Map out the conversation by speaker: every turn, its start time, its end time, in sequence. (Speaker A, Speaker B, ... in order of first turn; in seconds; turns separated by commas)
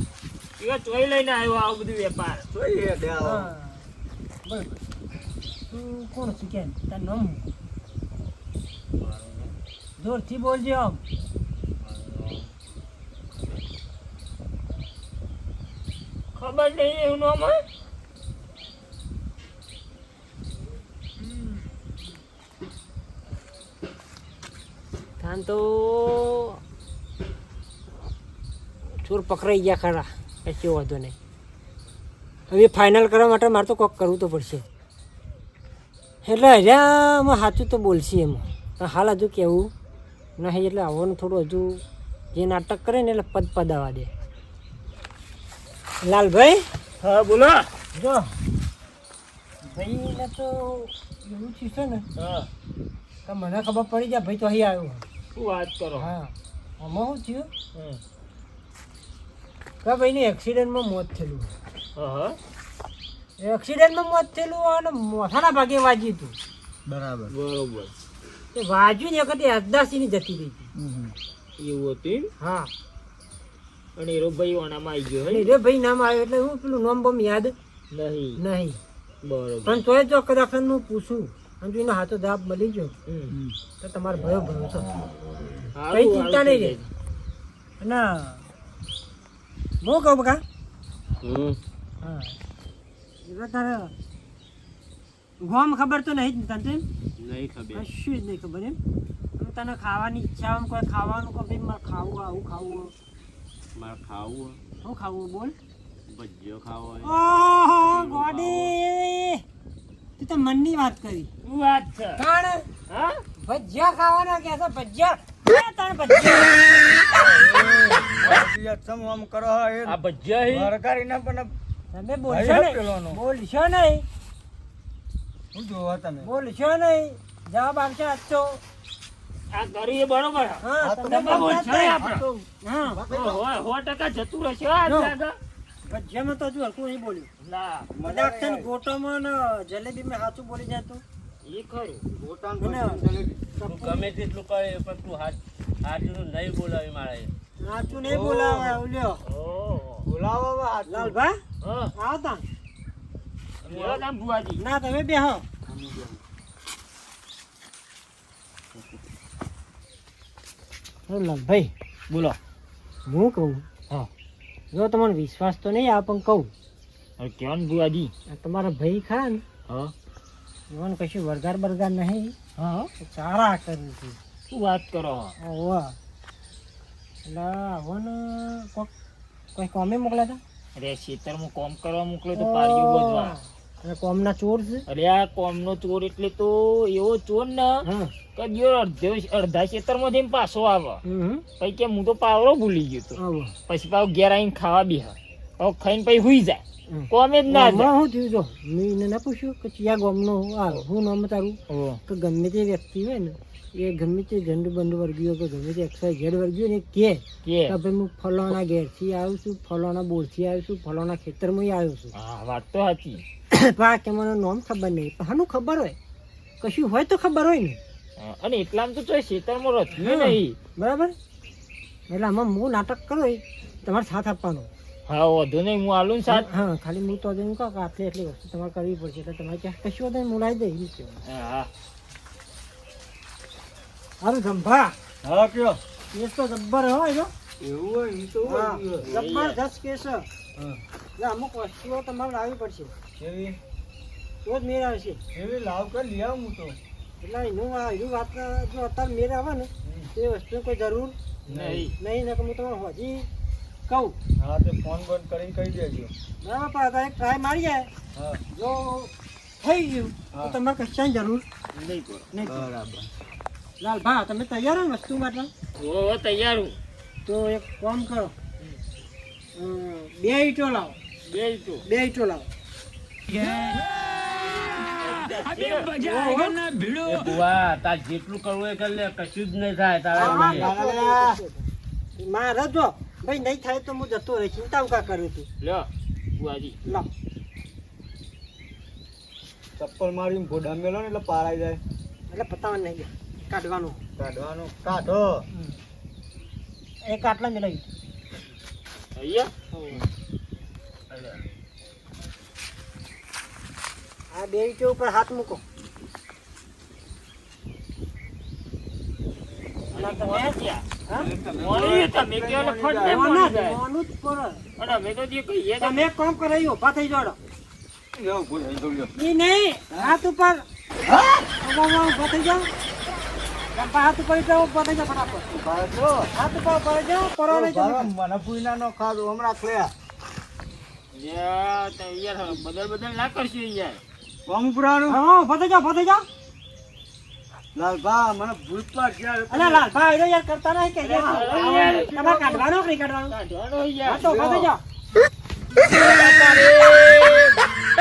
Speaker A: 0.6-2.5, Speaker B: 2.5-3.5, Speaker C: 3.2-3.8, Speaker B: 4.5-4.7, Speaker C: 5.7-7.5, Speaker D: 8.9-9.6, Speaker C: 10.0-11.0, Speaker D: 11.8-12.5, Speaker A: 16.4-17.6, Speaker C: 25.2-26.6, Speaker C: 29.0-31.2, Speaker C: 32.5-34.7, Speaker C: 36.2-39.7, Speaker C: 40.4-41.8, Speaker C: 42.3-44.1, Speaker C: 46.0-46.7, Speaker A: 47.0-47.7, Speaker C: 47.9-48.3, Speaker C: 49.6-52.1, Speaker A: 52.2-52.5, Speaker C: 53.3-55.0, Speaker A: 55.4-56.1, Speaker C: 56.0-57.5, Speaker A: 57.8-58.0, Speaker C: 59.8-61.5, Speaker A: 62.0-62.4, Speaker C: 63.4-66.4, Speaker B: 66.9-67.3, Speaker A: 67.3-67.9, Speaker C: 68.5-70.7, Speaker B: 70.8-71.1, Speaker A: 71.6-72.3, Speaker C: 72.4-72.7, Speaker A: 74.0-75.5, Speaker C: 75.3-77.5, Speaker A: 77.9-78.4, Speaker C: 78.4-78.8, Speaker A: 79.2-79.8, Speaker C: 79.7-82.9, Speaker A: 83.1-83.3, Speaker B: 83.3-83.5, Speaker C: 83.8-84.9, Speaker A: 85.8-86.9, Speaker C: 85.9-86.8, Speaker C: 87.8-88.4, Speaker C: 89.8-90.4, Speaker D: 91.2-91.6, Speaker C: 92.0-92.3, Speaker C: 93.2-93.9, Speaker C: 95.4-96.9, Speaker D: 97.2-97.9, Speaker C: 97.7-98.8, Speaker C: 99.4-102.9, Speaker D: 103.8-104.6, Speaker C: 104.8-105.5, Speaker D: 106.1-107.1, Speaker C: 107.0-109.4, Speaker D: 107.9-108.7, Speaker C: 110.2-111.3, Speaker A: 111.4-112.2, Speaker C: 112.2-112.7, Speaker A: 112.9-113.2, Speaker C: 113.4-116.7, Speaker B: 117.1-121.5, Speaker D: 119.9-120.7, Speaker C: 121.9-124.1, Speaker B: 122.3-123.2, Speaker B: 125.5-126.3, Speaker C: 126.2-128.6, Speaker A: 129.5-132.2, Speaker C: 130.6-133.0, Speaker B: 130.8-133.4, Speaker A: 133.1-135.3, Speaker C: 134.9-135.1, Speaker C: 135.9-137.3, Speaker A: 137.4-137.9, Speaker B: 137.9-138.7, Speaker C: 138.0-141.0, Speaker A: 141.4-142.0, Speaker B: 142.1-143.4, Speaker C: 142.6-144.1, Speaker D: 143.7-148.0, Speaker C: 147.6-149.2, Speaker B: 148.0-148.8, Speaker A: 149.3-150.1, Speaker B: 150.0-151.2, Speaker C: 150.9-151.4, Speaker A: 151.6-151.9, Speaker C: 152.0-152.4, Speaker A: 153.6-154.6, Speaker B: 153.7-154.0, Speaker C: 154.6-155.4, Speaker B: 155.7-156.2, Speaker C: 161.1-161.7, Speaker A: 162.1-162.4, Speaker C: 163.1-164.1, Speaker C: 164.7-166.5, Speaker A: 167.2-168.1, Speaker C: 168.3-169.4, Speaker C: 170.7-174.2, Speaker A: 174.5-175.3, Speaker C: 175.4-176.0, Speaker C: 177.3-178.9, Speaker C: 179.6-180.4, Speaker A: 180.8-183.3, Speaker C: 182.4-184.8, Speaker A: 184.9-187.8, Speaker C: 187.8-188.1, Speaker A: 188.4-191.0, Speaker C: 191.1-191.4, Speaker A: 191.6-197.9, Speaker C: 193.2-193.5, Speaker C: 196.9-212.1, Speaker A: 201.7-202.0, Speaker A: 207.4-207.7, Speaker A: 212.2-213.2, Speaker C: 213.5-216.0, Speaker C: 216.6-217.8, Speaker A: 218.2-220.6, Speaker C: 220.0-221.2, Speaker C: 222.1-224.7, Speaker A: 225.1-226.5, Speaker C: 226.3-231.2, Speaker A: 231.3-231.7, Speaker C: 234.2-234.9, Speaker B: 235.2-235.8, Speaker C: 236.1-237.3, Speaker B: 237.6-239.1, Speaker C: 238.4-240.3, Speaker A: 239.0-239.6, Speaker B: 240.6-240.8, Speaker C: 241.2-242.9, Speaker B: 243.2-243.6, Speaker C: 244.4-245.2, Speaker B: 245.3-246.8, Speaker C: 247.2-251.2, Speaker B: 249.8-250.1, Speaker B: 251.5-251.9, Speaker A: 251.5-252.0, Speaker C: 252.0-253.3, Speaker C: 253.9-254.2, Speaker B: 254.4-256.1, Speaker C: 256.4-257.9, Speaker B: 258.1-258.4, Speaker C: 258.5-261.4, Speaker A: 261.7-262.3, Speaker C: 262.3-262.7, Speaker B: 262.5-263.1, Speaker C: 263.8-265.5, Speaker A: 265.8-266.8, Speaker C: 267.3-268.3, Speaker C: 269.6-271.0, Speaker A: 271.3-271.9, Speaker C: 271.9-272.5, Speaker A: 275.0-276.0, Speaker C: 276.0-276.6, Speaker D: 276.9-280.7, Speaker B: 280.1-281.4, Speaker C: 280.2-285.5, Speaker A: 285.6-286.8, Speaker B: 289.8-291.8, Speaker C: 292.3-294.0, Speaker B: 294.2-295.5, Speaker C: 297.1-297.9, Speaker A: 299.2-299.5, Speaker C: 299.7-300.1, Speaker A: 301.1-301.4, Speaker C: 304.3-305.6, Speaker A: 309.9-310.9, Speaker C: 309.9-311.3, Speaker B: 311.1-313.4, Speaker A: 311.6-313.8, Speaker C: 313.0-314.9, Speaker A: 314.8-316.1, Speaker C: 315.8-317.4, Speaker B: 318.2-319.1, Speaker C: 319.1-320.6, Speaker B: 321.1-321.5, Speaker C: 321.6-322.7, Speaker C: 323.7-325.5, Speaker B: 325.5-326.3, Speaker C: 326.3-328.1, Speaker B: 327.5-329.9, Speaker A: 331.1-334.0, Speaker B: 334.5-335.2, Speaker C: 335.1-336.2, Speaker B: 337.8-339.9, Speaker C: 339.5-343.4, Speaker A: 341.0-342.7, Speaker A: 343.3-344.2, Speaker C: 344.1-344.8, Speaker B: 344.2-344.7, Speaker D: 345.8-347.6